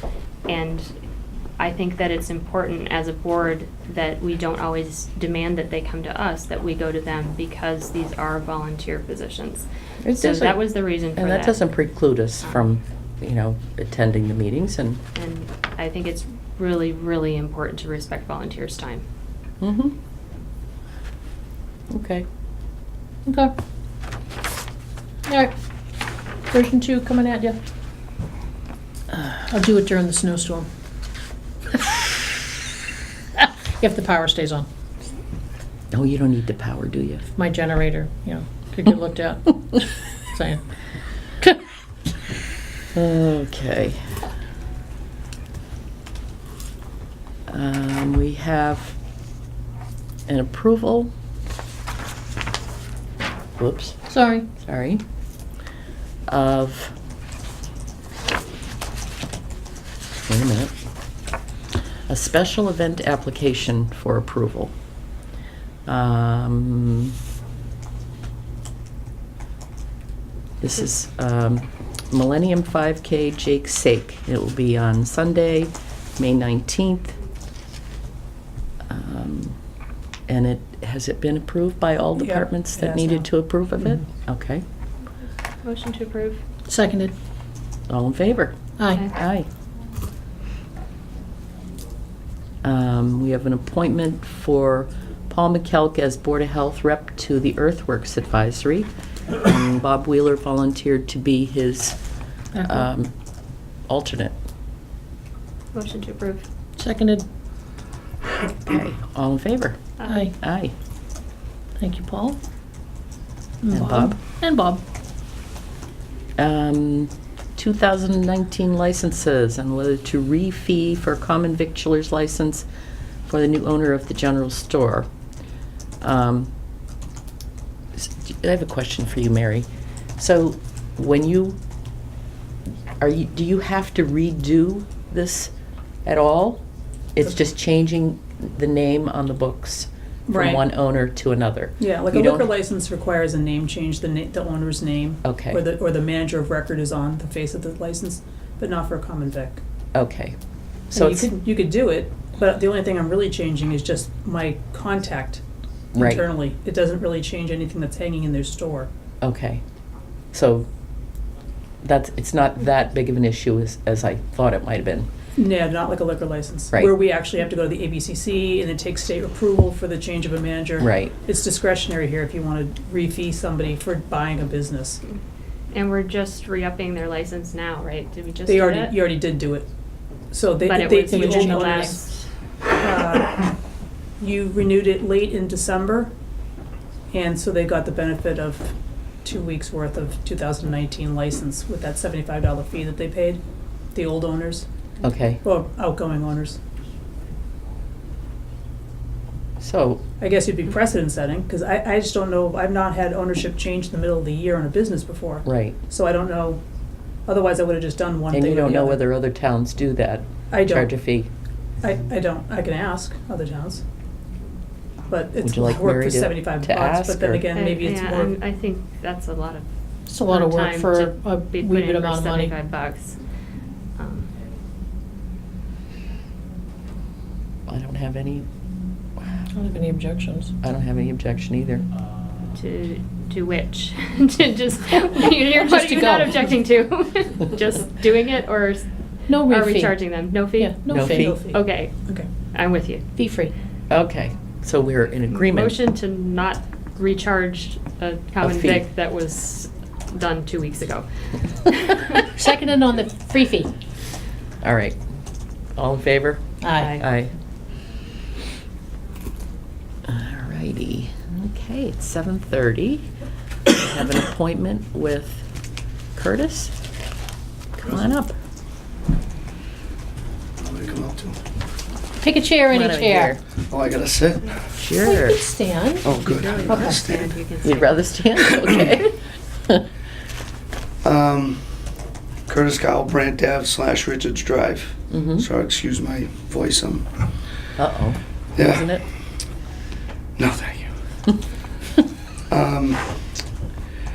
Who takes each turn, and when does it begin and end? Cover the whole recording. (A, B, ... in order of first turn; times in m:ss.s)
0:00.4-0:00.9 A
0:01.6-0:11.6 A
0:10.0-0:15.0 B
0:15.1-0:19.0 A
0:19.6-0:20.0 B
0:21.9-0:22.2 B
0:23.2-0:23.5 C
0:25.3-0:25.5 C
0:26.5-0:27.6 C
0:29.1-0:30.7 C
0:33.4-0:34.7 C
0:35.9-0:37.2 B
0:37.4-0:40.6 C
0:42.9-0:44.0 B
0:47.5-0:49.0 B
0:50.3-0:51.1 B
0:53.6-0:54.0 B
0:54.1-0:54.5 C
0:54.6-0:55.0 B
0:56.3-0:56.9 B
1:00.3-1:00.7 B
1:02.1-1:04.7 B
1:05.8-1:07.2 B
1:10.6-1:17.2 B
1:18.9-1:19.6 B
1:20.3-1:24.6 B
1:22.2-1:23.3 D
1:25.6-1:26.4 A
1:26.7-1:27.1 C
1:27.9-1:29.5 B
1:32.6-1:42.0 B
1:42.5-1:42.8 C
1:42.6-1:43.1 B
1:43.9-1:44.3 B
1:45.7-1:46.5 A
1:46.8-1:47.2 C
1:48.4-1:50.7 B
1:50.0-1:50.2 A
1:50.1-1:50.3 C
1:51.8-1:52.4 C
1:53.7-1:54.8 C
1:53.7-1:54.2 B
1:56.4-2:02.6 B
2:03.3-2:05.1 B
2:06.0-2:06.5 B
2:08.0-2:09.7 B
2:10.2-2:11.6 B
2:13.0-2:15.5 B
2:16.0-2:16.6 B
2:17.1-2:22.5 B
2:20.3-2:20.6 D
2:21.8-2:29.6 D
2:25.2-2:25.6 B
2:29.9-2:30.3 B
2:30.9-2:31.3 B
2:30.9-2:35.4 D
2:35.9-2:36.2 B
2:36.0-2:38.9 D
2:39.2-2:39.6 B
2:40.3-2:40.7 B
2:41.8-2:45.1 B
2:45.4-2:55.0 D
2:50.8-2:51.1 B
2:55.7-2:59.0 A
2:58.5-2:59.7 D
3:00.3-3:02.0 D
3:00.6-3:02.2 A
3:01.0-3:01.9 C
3:02.8-3:03.5 D
3:04.2-3:06.1 D
3:07.1-3:13.4 D
3:13.9-3:14.6 D
3:15.0-3:15.4 B
3:15.4-3:16.6 D
3:19.6-3:20.0 B
3:20.2-3:26.6 D
3:25.4-3:25.8 B
3:27.2-3:29.0 D
3:28.3-3:31.3 B
3:30.5-3:30.9 D
3:31.8-3:33.8 D
3:35.1-3:38.3 D
3:35.4-3:37.4 B
3:37.5-3:39.7 A
3:40.1-3:42.5 C
3:40.2-3:43.2 A
3:44.0-3:44.3 A
3:47.7-3:48.4 B
3:49.5-3:50.5 C
3:50.6-3:51.8 B
3:52.5-3:58.9 A
3:55.5-3:56.5 C
3:59.3-3:59.9 C
3:59.4-4:02.0 A
4:00.6-4:01.4 C
4:00.9-4:01.4 B
4:01.1-4:02.3 D
4:02.5-4:03.0 A
4:03.1-4:03.5 C
4:03.9-4:05.8 B
4:05.3-4:11.0 A
4:08.4-4:08.8 B
4:11.6-4:12.2 A
4:12.3-4:13.7 C
4:14.6-4:15.0 B
4:15.7-4:17.3 B
4:16.6-4:17.0 C
4:20.0-4:23.1 B
4:23.7-4:25.4 B
4:26.1-4:26.7 B
4:27.8-4:28.3 B
4:30.6-4:31.4 E
4:32.2-4:33.4 C
4:32.7-4:33.4 B
4:33.7-4:34.5 E
4:34.7-4:35.4 B
4:34.9-4:37.0 C
4:36.0-4:37.3 E
4:36.1-4:38.0 A
4:37.6-4:39.1 B
4:41.0-4:41.6 E
4:42.5-4:47.1 E
4:45.1-4:45.4 B
4:47.8-4:49.0 B
4:48.6-4:48.9 E
4:50.4-4:50.9 E
4:52.5-4:53.1 E